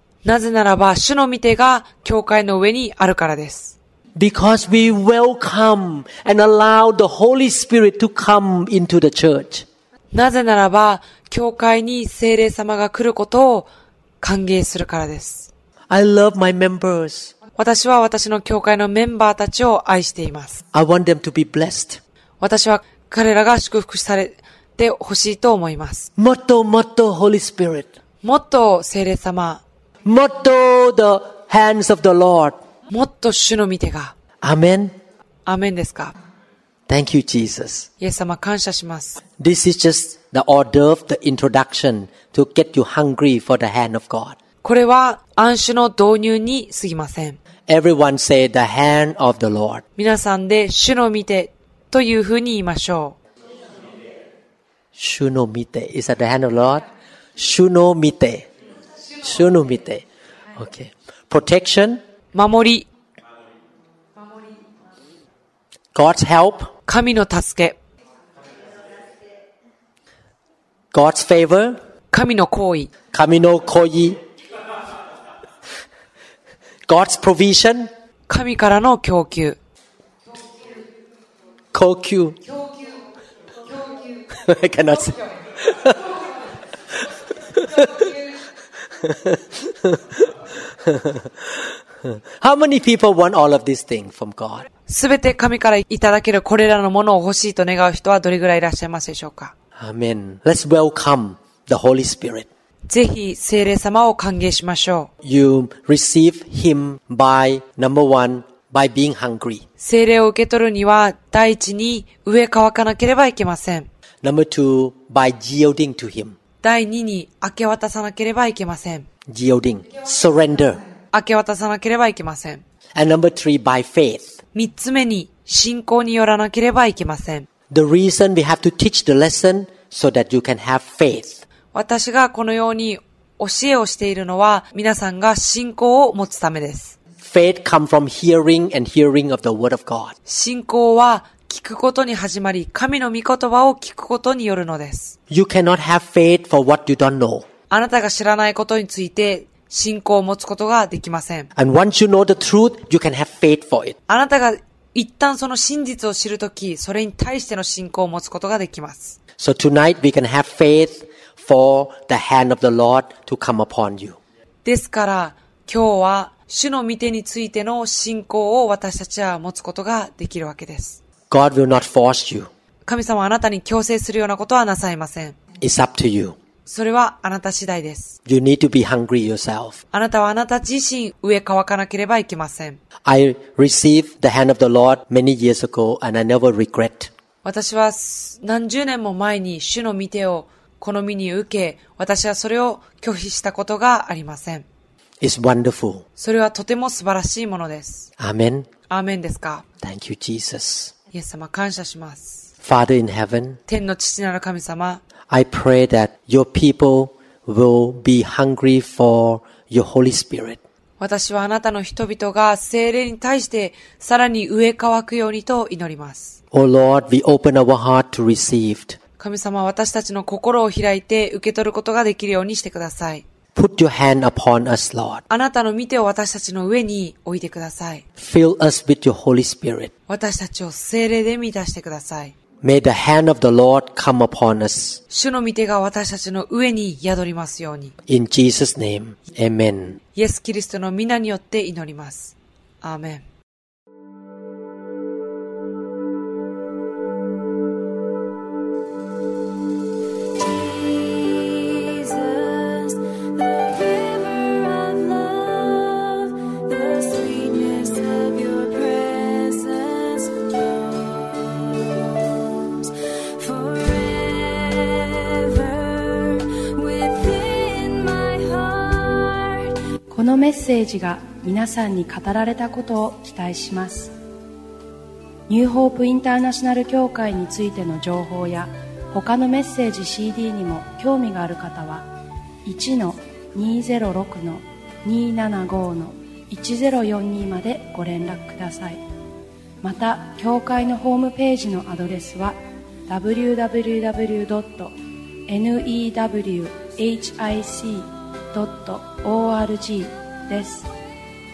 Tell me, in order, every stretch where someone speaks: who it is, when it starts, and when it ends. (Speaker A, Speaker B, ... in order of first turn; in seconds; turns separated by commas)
Speaker A: 0.2-3.8, Speaker B: 4.2-9.7, Speaker A: 10.1-13.7, Speaker A: 14.2-15.5, Speaker B: 15.9-17.3, Speaker A: 17.6-20.6, Speaker B: 20.7-22.0, Speaker A: 22.4-26.1, Speaker B: 26.2-27.9, Speaker A: 28.2-29.6, Speaker B: 30.1-32.6, Speaker A: 32.9-34.1, Speaker B: 34.4-34.9, Speaker A: 35.5-36.1, Speaker B: 36.9-37.9, Speaker A: 38.0-39.2, Speaker B: 39.4-44.4, Speaker A: 44.6-47.4, Speaker B: 47.7-49.8, Speaker A: 50.0-53.2, Speaker B: 55.0-56.8, Speaker B: 57.4-58.5, Speaker B: 59.2-62.0, Speaker A: 62.3-62.9, Speaker B: 65.9-66.7, Speaker A: 66.9-67.8, Speaker B: 70.9-71.8, Speaker A: 72.1-72.9, Speaker B: 73.1-74.2, Speaker B: 76.9-77.9, Speaker A: 78.3-79.6, Speaker B: 81.7-82.4, Speaker B: 84.3-86.1, Speaker B: 87.5-88.1, Speaker B: 89.0-90.3, Speaker B: 90.8-94.7, Speaker A: 94.9-99.5, Speaker B: 99.8-102.5, Speaker A: 102.9-105.1, Speaker B: 105.2-109.6, Speaker A: 109.8-113.9, Speaker B: 114.2-116.4, Speaker A: 116.6-119.1, Speaker B: 119.3-120.8, Speaker A: 121.1-122.6, Speaker B: 123.0-124.3, Speaker A: 124.5-127.5, Speaker B: 127.7-131.4, Speaker A: 131.7-137.0, Speaker B: 137.2-140.2, Speaker A: 140.3-145.2, Speaker B: 145.3-147.5, Speaker A: 147.7-151.5, Speaker B: 151.6-154.0, Speaker A: 154.1-159.2, Speaker B: 159.4-164.2, Speaker A: 164.7-171.0, Speaker B: 171.3-172.5, Speaker A: 172.8-175.4, Speaker B: 175.6-176.4, Speaker A: 176.7-178.2, Speaker B: 178.3-179.8, Speaker A: 179.9-182.8, Speaker B: 183.1-187.1, Speaker A: 187.4-194.7, Speaker B: 195.2-196.0, Speaker A: 196.2-198.1, Speaker B: 198.2-198.7, Speaker A: 198.9-199.7, Speaker B: 199.8-200.9, Speaker A: 201.1-202.5, Speaker B: 202.6-203.6, Speaker A: 203.7-205.0, Speaker B: 205.3-210.6, Speaker A: 211.0-216.4, Speaker B: 216.5-219.0, Speaker A: 219.2-223.2, Speaker B: 223.6-225.2, Speaker A: 225.3-228.0, Speaker B: 228.2-229.9, Speaker A: 230.1-232.3, Speaker B: 232.6-235.0, Speaker A: 235.1-237.9, Speaker B: 238.1-240.0, Speaker A: 240.2-243.2, Speaker C: 250.4-260.4, Speaker C: 262.9-269.7, Speaker D: 270.1-274.1, Speaker D: 275.5-282.1, Speaker D: 282.6-289.0, Speaker D: 289.8-294.9, Speaker D: 295.5-300.9